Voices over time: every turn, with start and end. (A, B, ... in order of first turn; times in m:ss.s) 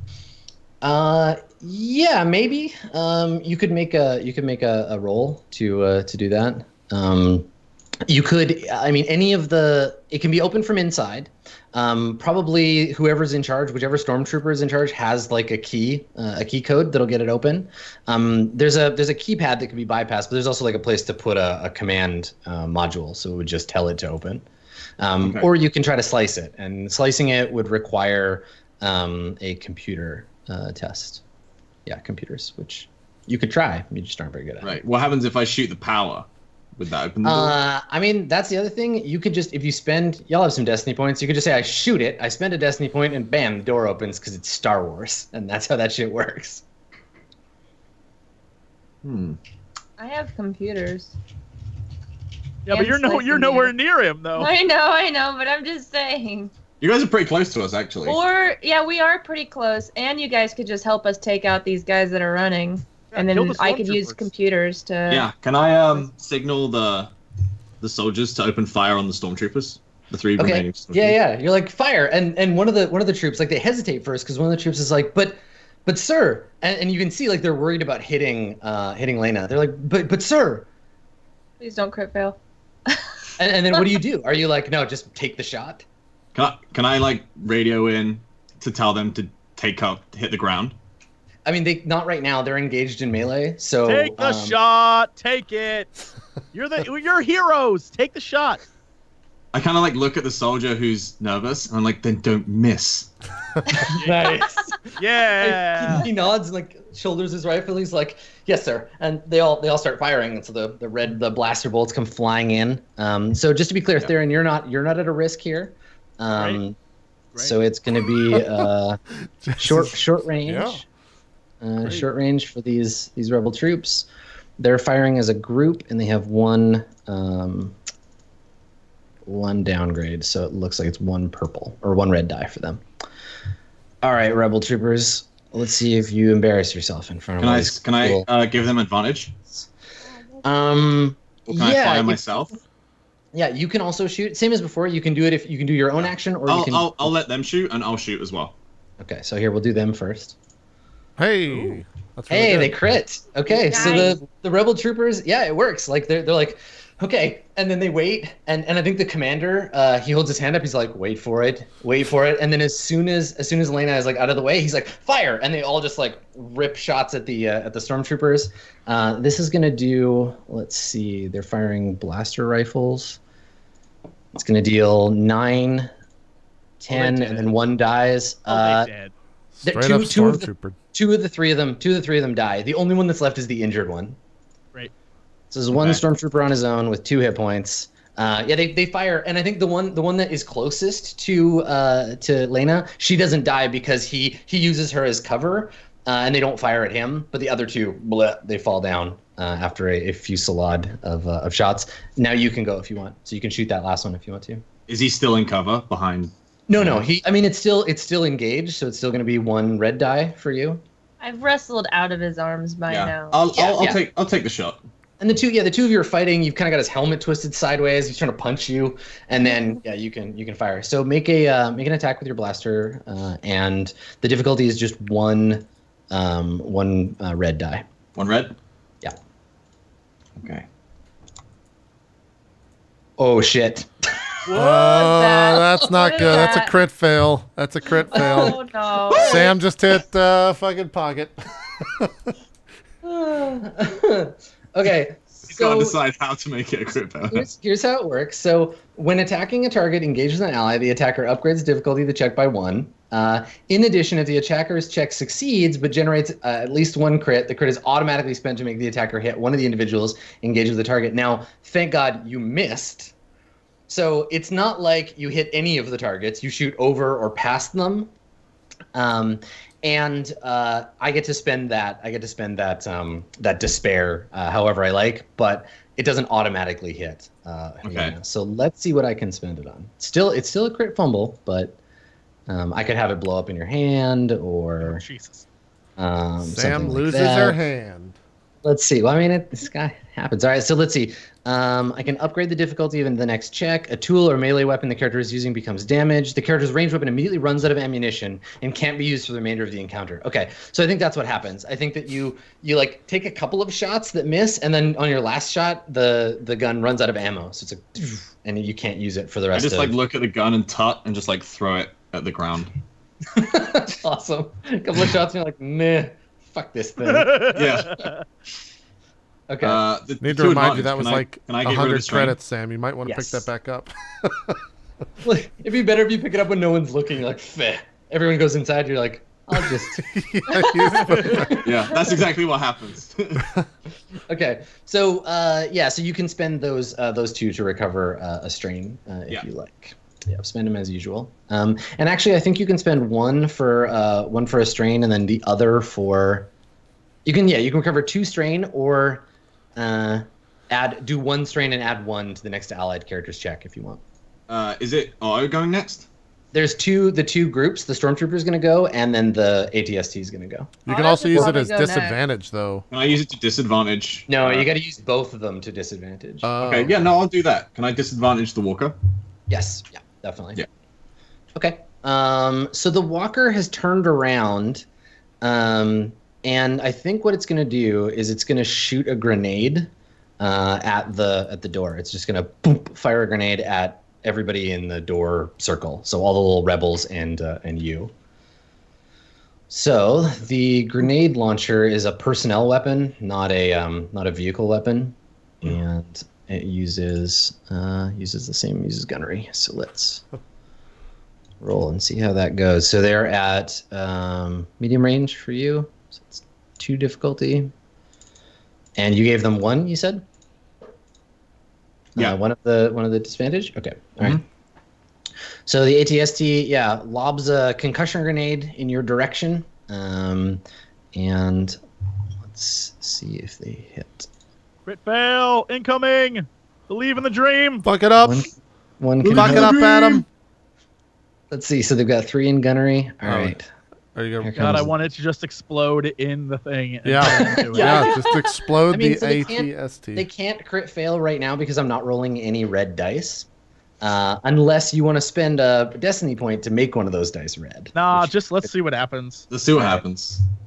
0:00.8-0:07.5 A
0:08.1-0:24.4 A
0:25.0-0:31.2 A
0:25.2-0:25.5 B
0:31.8-0:34.8 A
0:34.6-0:37.6 B
0:37.2-0:46.6 A
0:49.0-0:49.4 B
0:50.0-0:51.1 C
0:52.6-0:54.5 D
0:52.7-0:53.7 C
0:54.4-0:56.5 C
0:56.8-0:58.2 B
0:58.0-1:05.3 C
1:03.1-1:04.2 D
1:05.1-1:07.1 B
1:07.8-1:11.2 B
1:10.4-1:20.7 A
1:21.6-1:23.1 C
1:23.4-1:25.8 A
1:26.3-1:30.7 B
1:31.4-1:34.6 A
1:33.8-1:35.9 D
1:36.5-1:38.6 D
1:39.5-1:43.1 B
1:43.8-1:44.4 D
1:43.9-1:56.8 A
1:45.0-1:46.1 D
1:56.3-1:56.6 D
1:57.4-1:59.0 A
1:59.4-2:00.8 E
1:59.6-2:00.8 A
2:01.6-2:04.1 A
2:04.6-2:07.8 A
2:09.2-2:12.8 A
2:14.0-2:18.3 A
2:17.4-2:19.4 B
2:20.4-2:22.2 A
2:21.5-2:22.5 B
2:23.3-2:27.1 A
2:26.5-2:28.5 B
2:29.0-2:30.3 A
2:31.2-2:32.8 E
2:32.3-2:53.2 A
2:33.7-2:34.2 C
2:54.3-2:55.9 A
2:56.8-2:58.9 A
2:56.9-2:57.5 D
2:58.5-2:59.1 D
2:59.6-3:00.8 E
2:59.6-3:04.2 A
3:05.5-3:24.6 A
3:05.7-3:06.0 B
3:24.9-3:27.0 B
3:26.7-3:30.8 A
3:31.2-3:33.4 C
3:32.9-3:34.8 B
3:33.6-3:34.0 A
3:35.2-3:47.8 A
3:48.2-3:48.5 B
3:50.4-3:50.6 B
3:53.2-3:54.2 A
3:54.4-3:55.1 D
3:54.5-3:58.6 E
3:54.7-3:56.7 C
3:58.1-3:58.6 A
3:58.1-3:59.4 C
3:59.1-3:59.5 A
3:59.1-4:02.1 E
4:03.0-4:03.6 C
4:03.5-4:06.0 A
4:05.4-4:07.4 B
4:07.3-4:23.1 A
4:23.9-4:28.1 A
4:28.9-4:41.8 A
4:37.8-4:38.1 B
4:42.5-4:45.0 A
4:44.8-4:45.4 D
4:46.0-4:47.6 A
4:46.4-4:48.2 E
4:48.6-5:09.9 A
5:09.5-5:12.7 B
5:13.3-5:17.6 A
5:17.0-5:18.2 D
5:17.5-5:18.0 B
5:19.5-5:19.8 A
5:19.6-5:22.4 B
5:20.2-5:24.6 E
5:23.0-5:23.4 A
5:25.2-5:30.0 A
5:29.9-5:31.6 E
5:30.8-5:31.8 A
5:31.6-5:33.5 B
5:34.3-5:46.5 A
5:47.2-5:49.2 A
5:49.8-5:54.0 A
5:54.5-5:56.1 B
5:56.5-6:00.7 A
6:00.8-6:02.8 E
6:00.9-6:02.2 C
6:02.9-6:04.7 B
6:04.3-6:06.5 A
6:06.4-6:06.9 E
6:06.6-6:08.9 B
6:09.5-6:10.6 A
6:11.5-6:14.8 A
6:15.4-6:28.1 A
6:29.7-6:40.2 A
6:41.6-6:47.7 A
6:49.0-6:50.2 A
6:52.2-6:54.4 A
6:55.6-7:00.6 A
7:01.1-7:01.8 A
7:02.4-7:04.3 A
7:04.8-7:07.8 D
7:07.8-7:08.5 E
7:08.2-7:09.8 A
7:09.2-7:10.2 D
7:09.3-7:10.2 E
7:11.5-7:13.6 A
7:13.2-7:13.6 E
7:14.1-7:14.9 E
7:14.4-7:14.9 A
7:14.6-7:18.1 D
7:17.0-7:20.2 E
7:17.3-7:18.2 A
7:18.9-7:23.5 A
7:24.0-7:28.3 A
7:27.9-7:29.4 D
7:29.5-7:30.4 B
7:29.7-7:30.0 A